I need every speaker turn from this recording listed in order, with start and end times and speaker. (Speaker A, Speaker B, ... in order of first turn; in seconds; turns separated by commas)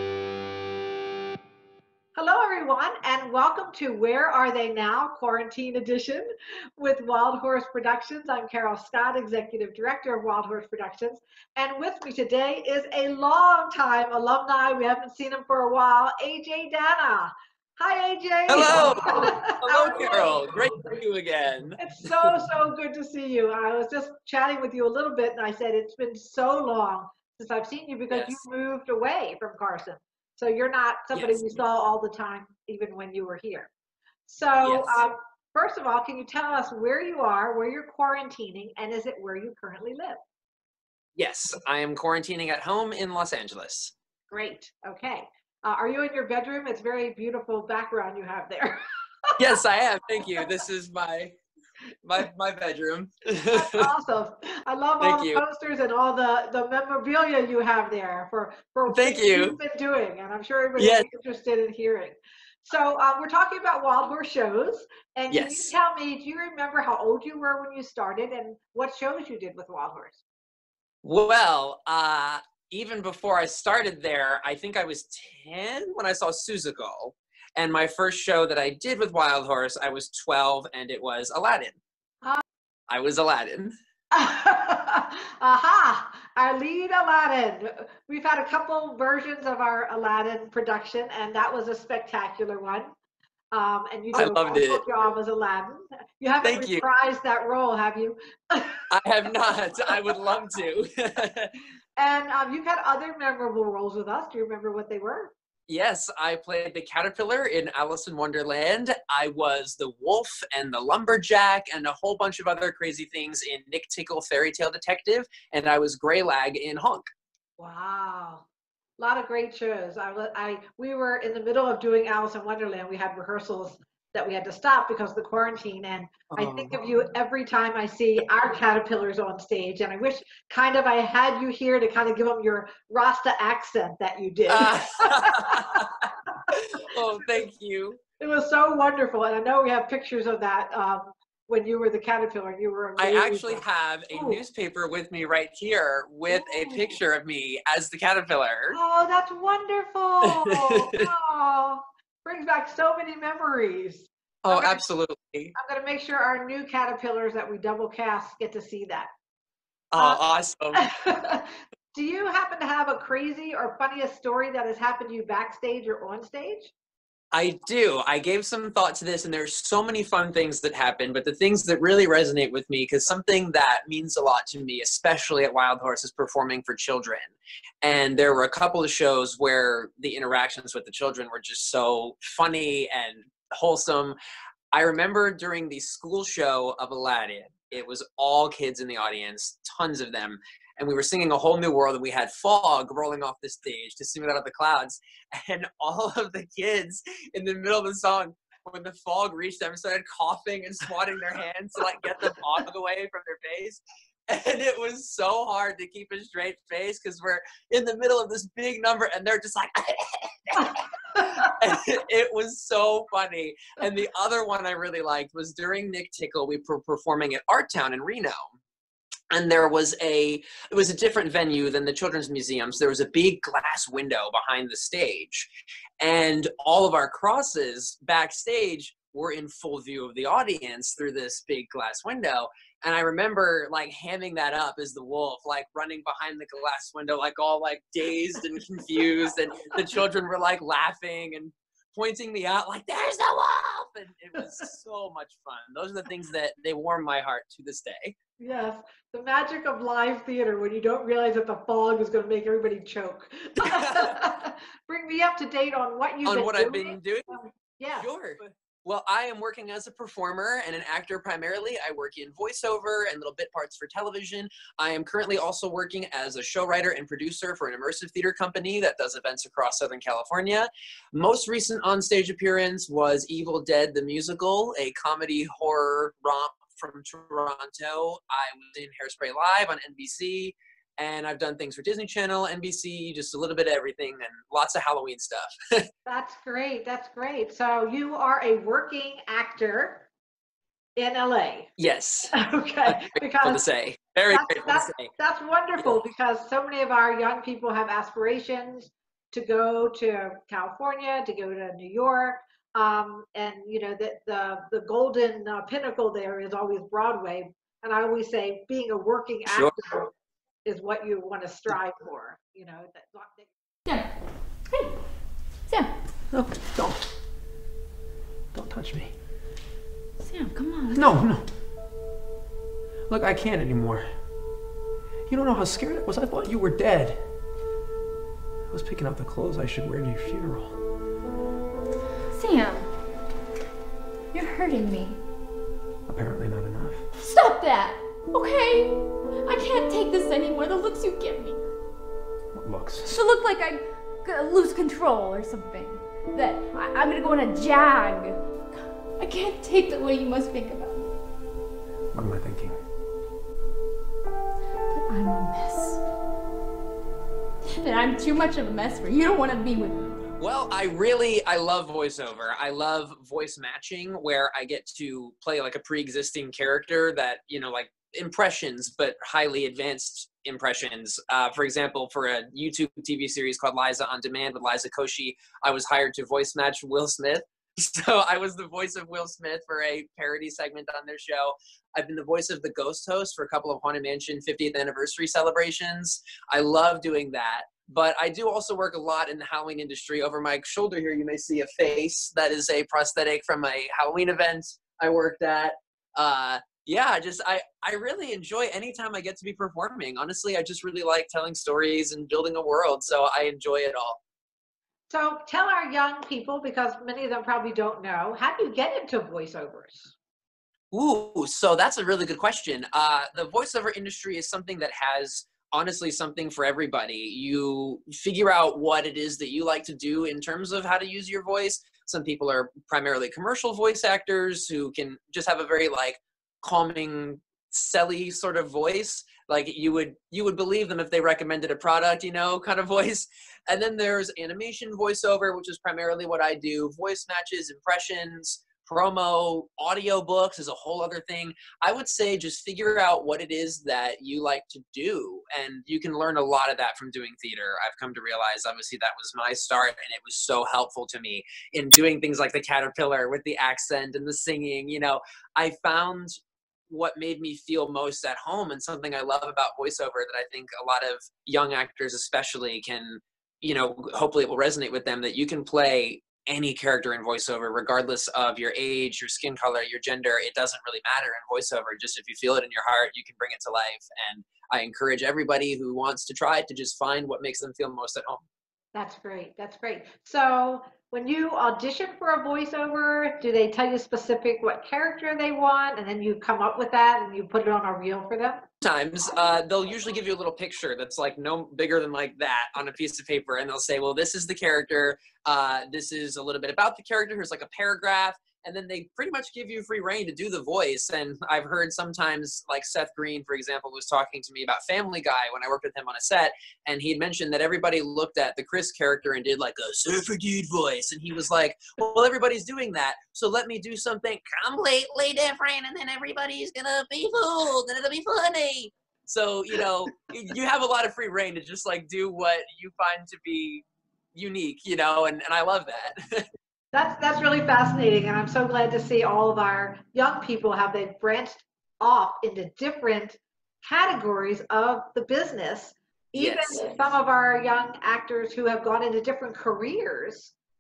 Speaker A: 2.1-20.4, Speaker B: 18.5-22.4, Speaker A: 21.8-33.7, Speaker B: 28.1-28.4, Speaker B: 31.1-31.6, Speaker A: 34.3-40.2, Speaker B: 34.6-35.0, Speaker B: 41.2-43.9, Speaker A: 44.3-48.8, Speaker B: 49.4-51.4, Speaker B: 52.0-53.9, Speaker A: 53.5-70.2, Speaker B: 55.0-55.4, Speaker B: 58.9-59.6, Speaker B: 60.8-61.1, Speaker B: 65.3-65.7, Speaker B: 71.0-81.8, Speaker B: 82.9-83.7, Speaker A: 84.1-92.9, Speaker A: 93.5-98.8, Speaker B: 94.1-94.8, Speaker B: 96.4-96.8, Speaker B: 98.9-101.5, Speaker A: 102.0-105.3, Speaker B: 105.7-117.1, Speaker A: 117.6-118.5, Speaker A: 119.0-135.9, Speaker B: 126.3-126.8, Speaker B: 134.5-135.9, Speaker B: 136.5-138.0, Speaker A: 138.2-144.4, Speaker B: 143.0-148.8, Speaker A: 146.3-147.0, Speaker A: 148.7-154.8, Speaker B: 150.2-150.8, Speaker B: 154.4-155.5, Speaker A: 155.6-159.1, Speaker B: 159.9-160.8, Speaker A: 160.8-166.7, Speaker B: 167.3-184.2, Speaker B: 184.7-218.5, Speaker B: 219.3-248.2, Speaker A: 248.4-258.5, Speaker B: 253.7-254.1, Speaker B: 256.2-257.3, Speaker B: 257.9-285.9, Speaker A: 286.1-290.1, Speaker A: 291.0-291.7, Speaker B: 291.8-295.1, Speaker A: 292.3-293.6, Speaker A: 294.3-310.1, Speaker B: 309.5-309.8, Speaker A: 310.6-313.5, Speaker C: 313.9-314.1, Speaker C: 314.6-315.0, Speaker C: 315.7-315.9, Speaker B: 316.3-317.0, Speaker B: 318.5-319.1, Speaker C: 320.2-321.1, Speaker B: 320.9-321.4, Speaker B: 323.1-324.1, Speaker B: 325.3-327.2, Speaker B: 328.7-330.7, Speaker C: 332.3-332.9, Speaker C: 334.3-335.2, Speaker D: 336.1-337.0, Speaker B: 336.1-336.9, Speaker C: 337.2-341.6, Speaker D: 342.6-343.0, Speaker C: 343.0-351.1, Speaker D: 352.1-352.8, Speaker C: 354.9-356.0, Speaker C: 357.7-360.1, Speaker B: 360.4-404.2, Speaker A: 405.1-410.1, Speaker B: 410.9-456.4, Speaker B: 456.9-478.4, Speaker A: 478.9-488.6, Speaker B: 488.8-526.5, Speaker A: 526.9-540.5, Speaker B: 536.4-536.9